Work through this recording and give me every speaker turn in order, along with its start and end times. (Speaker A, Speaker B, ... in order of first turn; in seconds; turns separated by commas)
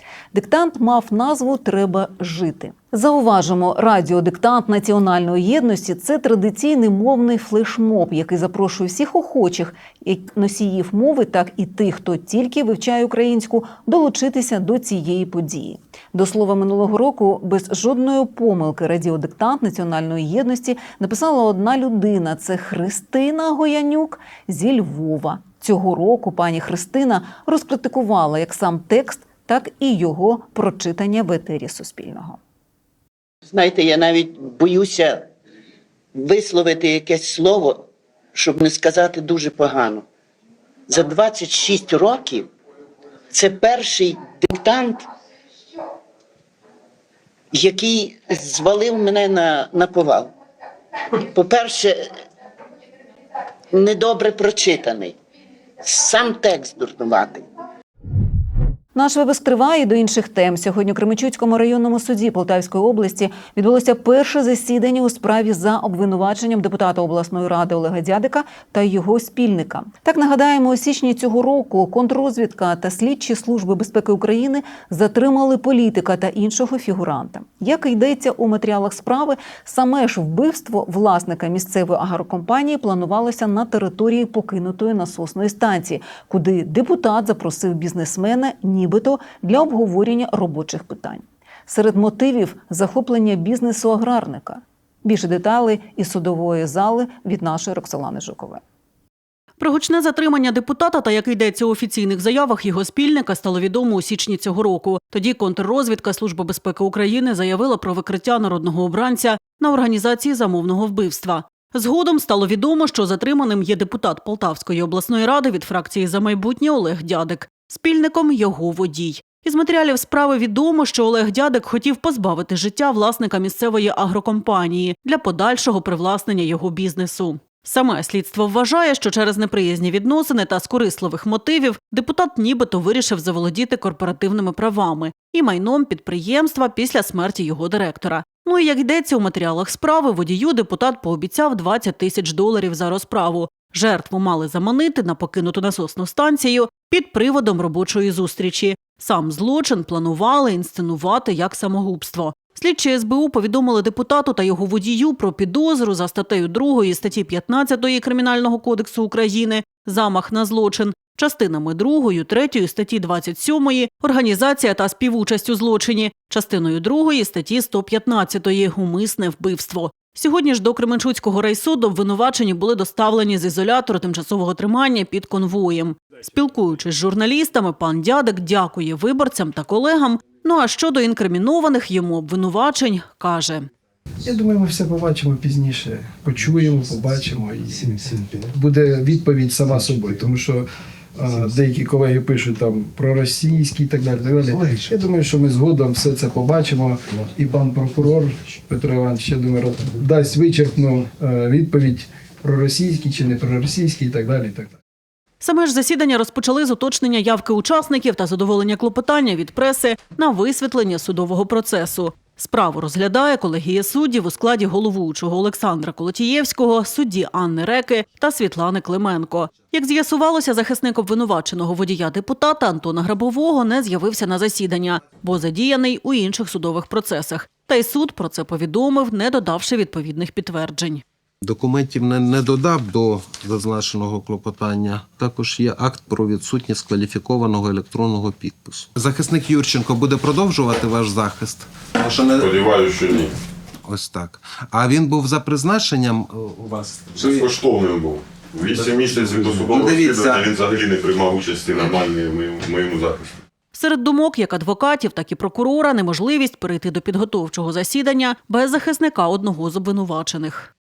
Speaker A: 0.3-32.4, Speaker B: 33.5-35.3, Speaker B: 36.1-40.0, Speaker B: 40.9-42.5, Speaker B: 43.3-45.1, Speaker B: 47.5-50.3, Speaker B: 51.2-52.1, Speaker B: 53.7-55.2, Speaker B: 55.8-57.5, Speaker A: 59.0-98.6, Speaker C: 99.6-183.7, Speaker D: 184.3-204.7, Speaker C: 205.4-231.0, Speaker E: 231.4-242.7, Speaker F: 242.4-243.3, Speaker E: 243.8-247.6, Speaker F: 247.1-253.4, Speaker E: 248.6-250.8, Speaker C: 253.7-260.7